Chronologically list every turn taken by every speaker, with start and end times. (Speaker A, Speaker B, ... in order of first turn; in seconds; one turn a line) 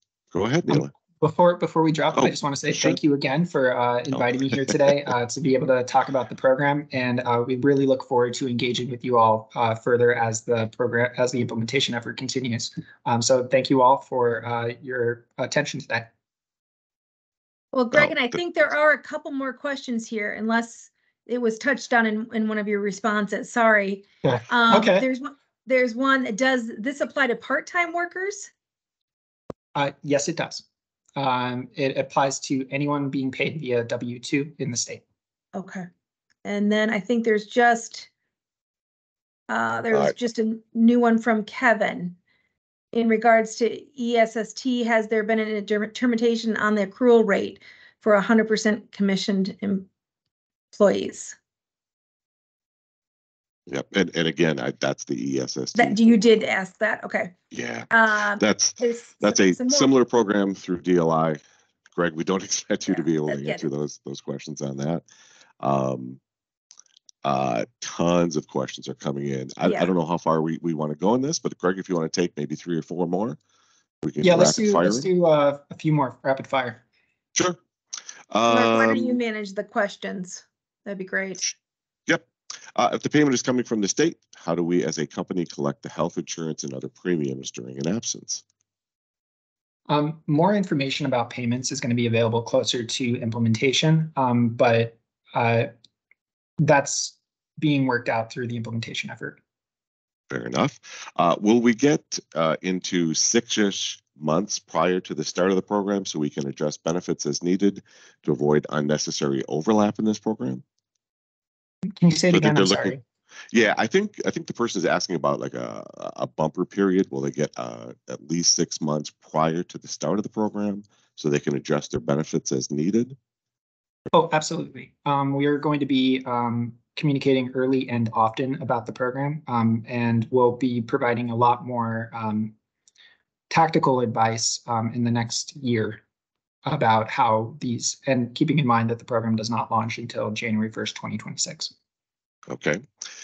Speaker A: 0.3-0.9
Speaker B: 0.7-16.1
Speaker A: 2.1-3.0
Speaker C: 17.7-28.5
Speaker B: 24.2-25.1
Speaker B: 29.7-30.6
Speaker B: 31.1-35.0
Speaker C: 35.5-35.9
Speaker C: 36.4-38.1
Speaker C: 39.5-42.1
Speaker C: 42.9-49.9
Speaker C: 50.7-51.4
Speaker A: 53.7-56.1
Speaker C: 55.8-57.4
Speaker A: 57.5-61.4
Speaker C: 57.9-59.9
Speaker A: 61.9-65.0
Speaker C: 62.9-63.6
Speaker A: 65.6-66.2
Speaker A: 67.2-73.4
Speaker C: 69.6-69.9
Speaker A: 74.0-75.1
Speaker B: 74.2-76.8
Speaker A: 78.3-79.2
Speaker C: 78.5-81.5
Speaker A: 82.1-88.4
Speaker B: 89.9-95.7
Speaker B: 96.6-99.4
Speaker A: 100.3-110.6
Speaker B: 111.9-113.0
Speaker A: 112.3-113.0
Speaker A: 113.5-123.2
Speaker B: 124.1-132.5
Speaker B: 133.5-136.0
Speaker B: 136.6-141.7
Speaker A: 142.5-142.8